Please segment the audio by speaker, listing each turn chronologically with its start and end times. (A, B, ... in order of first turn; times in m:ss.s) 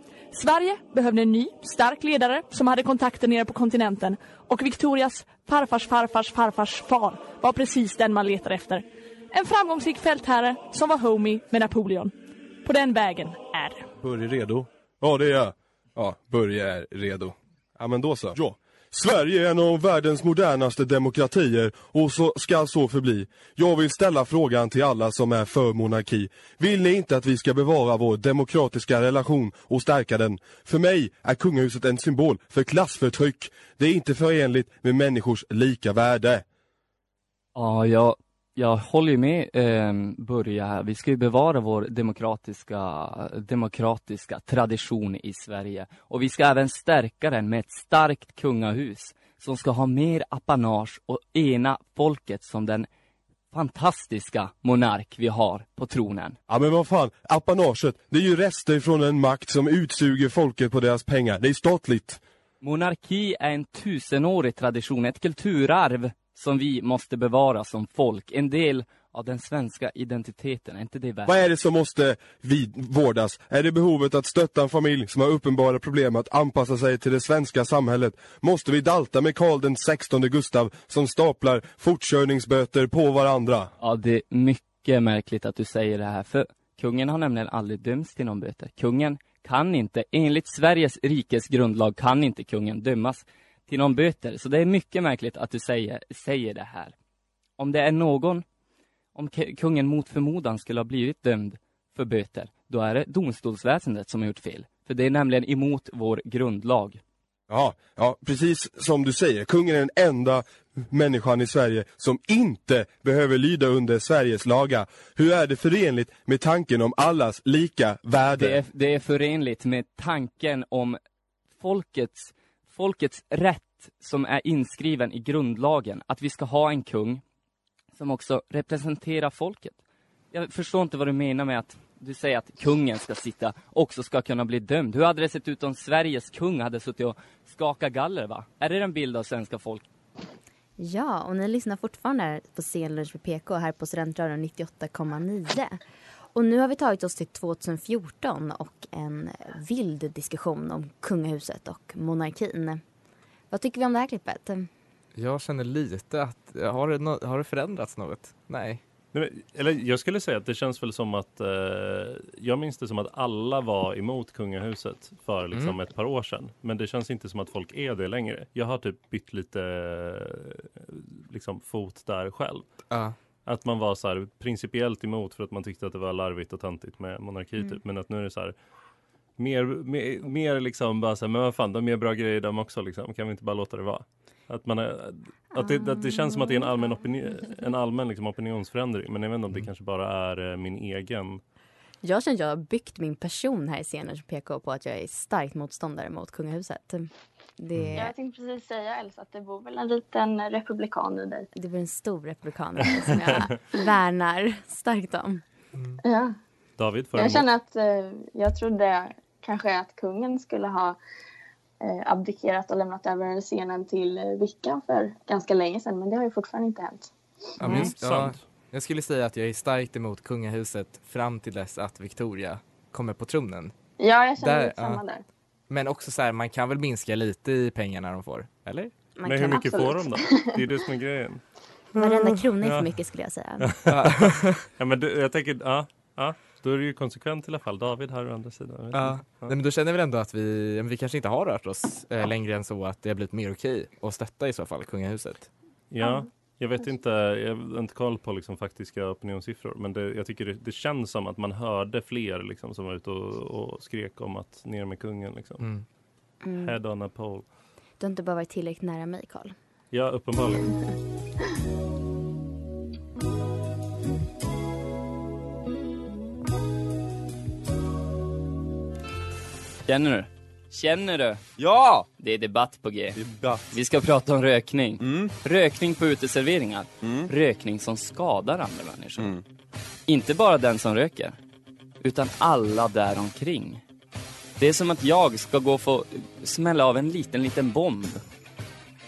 0:00.3-0:13.9 A
0:14.0-0:36.4 B
0:37.5-0:52.9 C
0:53.5-0:56.4 C
0:56.5-1:02.2 B
1:02.6-1:11.5 C
1:11.2-1:23.7 B
1:23.8-1:36.9 C
1:37.6-1:38.4 C
1:39.1-1:47.0 C
1:47.5-1:58.6 B
1:58.3-2:01.0 C
2:01.6-2:07.2 C
2:08.0-2:09.8 C
2:10.3-2:19.8 C
2:20.8-2:25.8 D
2:26.3-2:32.8 D
2:33.5-2:34.7 D
2:35.2-2:38.8 E
2:39.1-2:52.8 F
2:52.9-2:53.2 E
2:53.4-2:58.5 F
2:59.4-3:11.4 F
3:05.6-3:06.6 D
3:12.0-3:18.1 D
3:17.9-3:21.5 G
3:21.5-3:25.4 D
3:23.2-3:23.5 F
3:25.7-3:26.0 E
3:26.0-3:26.3 G
3:26.8-3:27.5 F
3:27.2-3:31.0 G
3:31.8-3:37.1 G
3:37.6-3:43.7 E
3:37.6-3:38.4 F
3:44.0-3:45.2 G
3:44.4-3:45.0 E
3:45.7-3:48.9 E
3:49.2-3:49.9 D
3:49.2-3:52.9 F
3:49.6-3:50.5 G
3:52.0-3:53.7 D
3:53.6-3:59.5 F
3:53.9-3:54.6 E
3:58.9-4:05.5 E
4:05.9-4:15.6 F
4:15.6-4:15.8 E
4:16.4-4:16.8 D
4:16.6-4:17.5 F
4:18.0-4:19.5 D
4:19.9-4:20.7 F
4:29.9-4:31.4 C
4:31.6-4:32.1 H
4:32.2-4:33.2 C
4:33.2-4:33.7 H
4:33.7-4:39.3 C
4:35.0-4:35.3 H
4:37.0-4:37.3 H
4:39.2-4:39.4 H
4:40.1-4:41.4 C
4:42.0-4:43.8 C
4:44.6-4:48.2 C